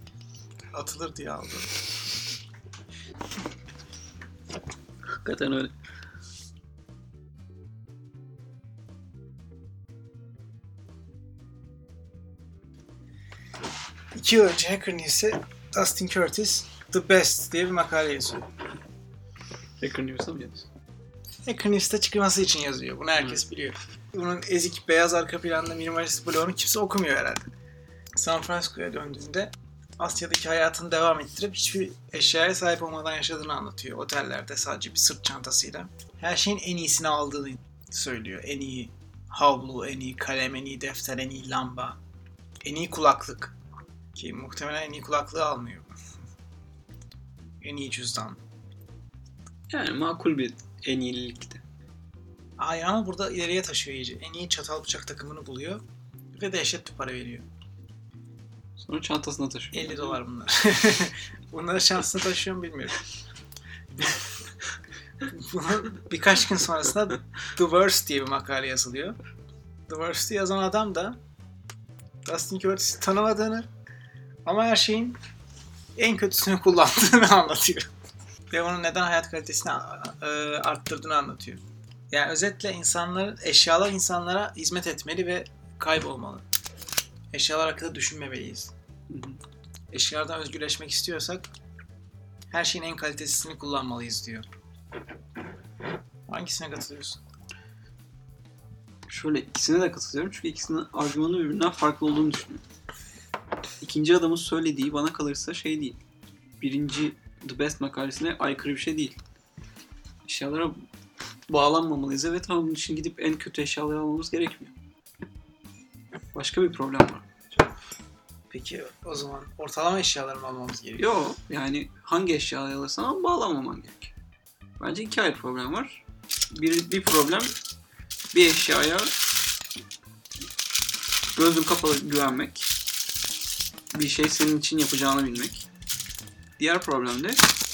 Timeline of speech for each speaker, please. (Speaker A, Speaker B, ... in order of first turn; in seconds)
Speaker A: 0.7-1.7, 14.1-18.5, 21.4-27.5, 28.1-42.0, 42.6-43.5, 44.1-45.9, 47.6-48.4, 52.6-57.5, 59.7-63.0, 65.3-69.2, 69.9-71.2, 72.2-73.7, 74.4-75.2, 76.0-77.9, 78.5-86.4, 87.3-88.7, 89.9-91.5, 92.5-94.5, 96.3-97.2, 118.5-121.2
Speaker B: 5.2-5.7, 19.8-20.7, 23.2-23.4, 49.7-51.6, 58.8-60.2, 89.1-89.4, 99.1-102.6, 103.8-106.0, 106.6-109.2, 110.2-110.8, 111.5-114.7, 116.3-117.3, 121.0-124.1, 124.8-127.5, 128.3-129.1, 131.3-132.7, 133.9-135.7, 136.6-137.4